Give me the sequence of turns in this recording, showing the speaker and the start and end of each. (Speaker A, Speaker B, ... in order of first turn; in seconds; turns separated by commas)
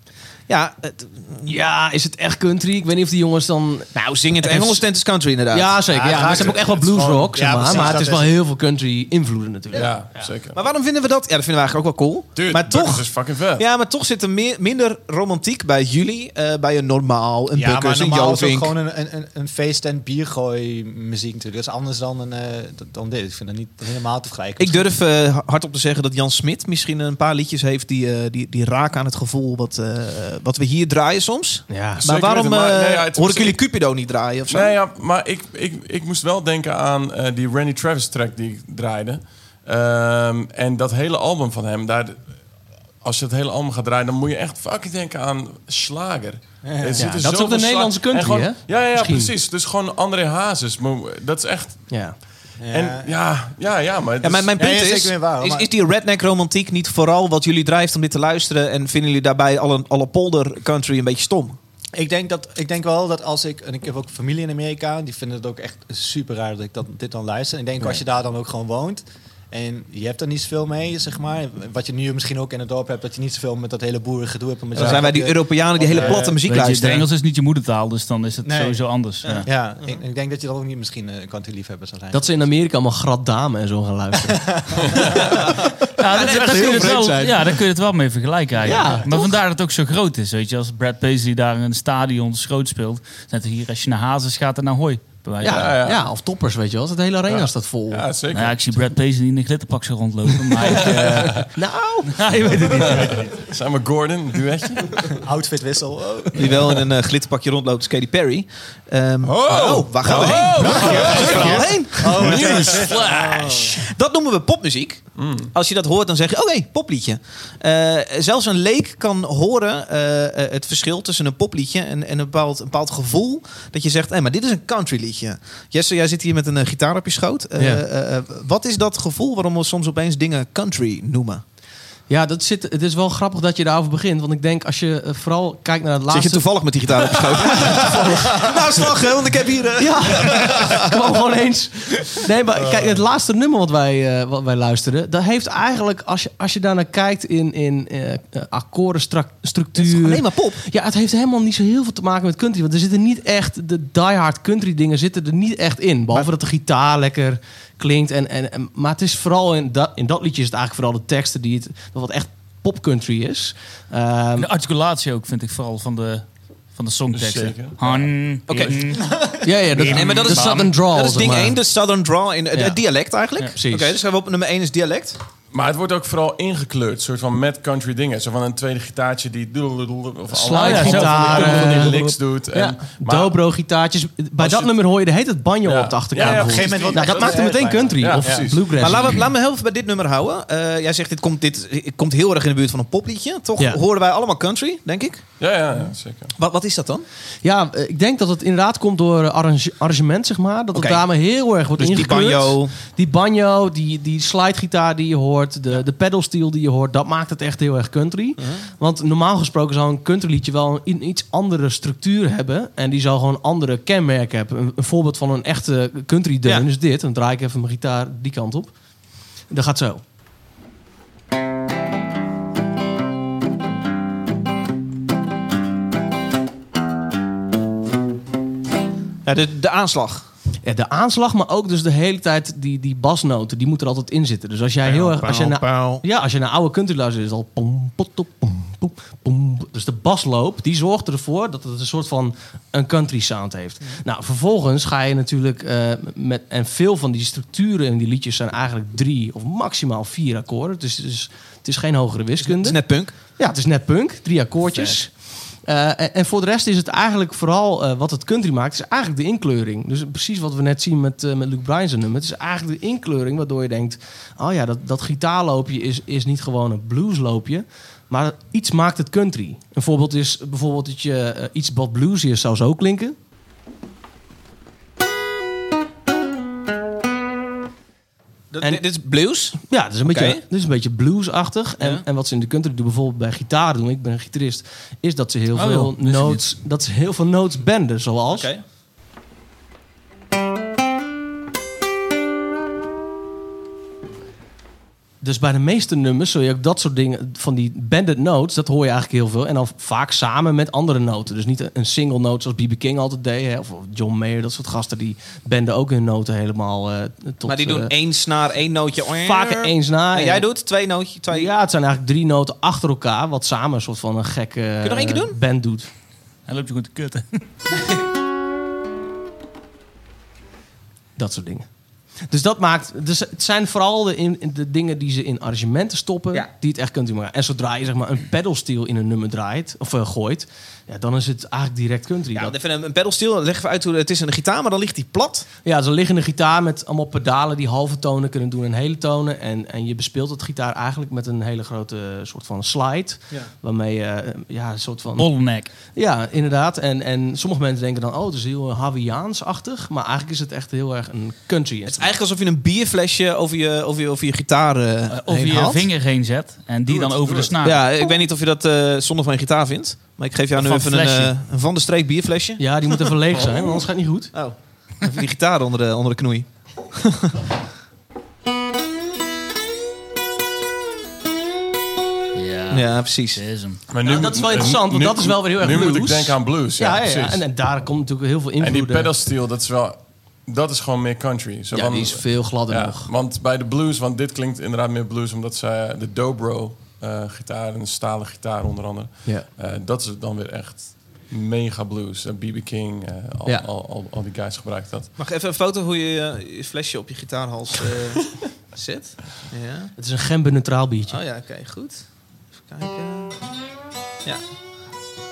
Speaker A: 0.5-1.5, Speaker B: 1.5-4.9, Speaker A: 4.0-6.6, Speaker B: 5.5-10.3, Speaker C: 6.0-8.4, Speaker D: 6.3-7.2, Speaker A: 7.7-8.0, Speaker D: 9.7-10.6, Speaker A: 10.5-18.7, Speaker D: 12.4-13.7, Speaker C: 17.5-24.9, Speaker A: 24.6-34.8, Speaker B: 31.7-32.0, Speaker D: 32.0-33.8, Speaker D: 34.5-54.5, Speaker C: 46.6-47.1, Speaker B: 47.0-49.3, Speaker B: 51.9-52.2, Speaker C: 52.6-53.1, Speaker A: 54.2-61.6, Speaker C: 54.6-55.7, Speaker C: 62.0-76.4, Speaker A: 74.7-77.1, Speaker D: 74.8-75.0, Speaker E: 76.2-79.5, Speaker C: 78.4-78.8, Speaker C: 79.4-82.5, Speaker B: 82.1-84.4, Speaker C: 84.5-85.4, Speaker E: 86.0-95.7, Speaker A: 86.1-87.4, Speaker C: 86.2-87.3, Speaker B: 88.6-89.3, Speaker B: 95.4-98.1, Speaker D: 95.5-96.0, Speaker D: 97.3-98.8, Speaker E: 98.3-101.5, Speaker D: 100.8-101.5, Speaker B: 101.4-103.0, Speaker E: 102.1-103.3, Speaker D: 102.9-105.0, Speaker C: 105.0-106.8, Speaker A: 106.4-131.4, Speaker D: 109.2-113.8, Speaker C: 110.1-113.8, Speaker B: 111.2-111.9, Speaker D: 115.2-115.5, Speaker B: 127.6-127.8, Speaker B: 132.1-136.9, Speaker A: 136.1-140.8, Speaker B: 137.5-138.5, Speaker B: 139.8-164.5, Speaker A: 149.8-150.6, Speaker E: 164.4-170.7, Speaker D: 167.1-168.9, Speaker A: 168.5-168.9, Speaker C: 169.0-169.3, Speaker B: 169.4-171.6, Speaker A: 169.9-175.2, Speaker B: 172.5-174.0, Speaker D: 175.5-183.4, Speaker B: 180.3-189.3, Speaker E: 180.5-182.2, Speaker D: 184.4-184.9, Speaker D: 185.6-189.2, Speaker C: 186.2-188.6, Speaker A: 188.8-197.1, Speaker D: 195.4-196.3, Speaker B: 197.4-220.0, Speaker A: 200.7-202.8, Speaker A: 216.4-216.7, Speaker A: 229.2-230.3, Speaker B: 230.6-273.2, Speaker A: 234.9-236.1, Speaker A: 252.4-253.2, Speaker A: 254.7-255.0, Speaker A: 278.5-280.4, Speaker B: 278.6-288.5, Speaker A: 281.8-282.1, Speaker E: 285.5-286.5, Speaker A: 288.3-288.6, Speaker B: 295.2-307.9, Speaker A: 307.4-311.5, Speaker B: 309.2-315.9, Speaker A: 314.8-315.4, Speaker E: 316.5-317.4, Speaker B: 321.2-332.6, Speaker A: 332.3-335.5, Speaker B: 335.6-352.1, Speaker E: 345.2-345.7, Speaker A: 351.9-355.9, Speaker E: 355.1-357.9, Speaker D: 356.9-357.5, Speaker A: 357.6-363.0, Speaker E: 360.6-361.4, Speaker B: 362.6-364.5, Speaker A: 364.3-367.3, Speaker E: 372.4-373.8, Speaker A: 372.7-373.5, Speaker D: 373.9-377.4, Speaker B: 374.0-379.1, Speaker D: 378.6-395.1, Speaker B: 381.7-383.1, Speaker B: 389.2-389.5, Speaker A: 395.2-399.9, Speaker B: 400.0-401.2, Speaker A: 401.1-403.6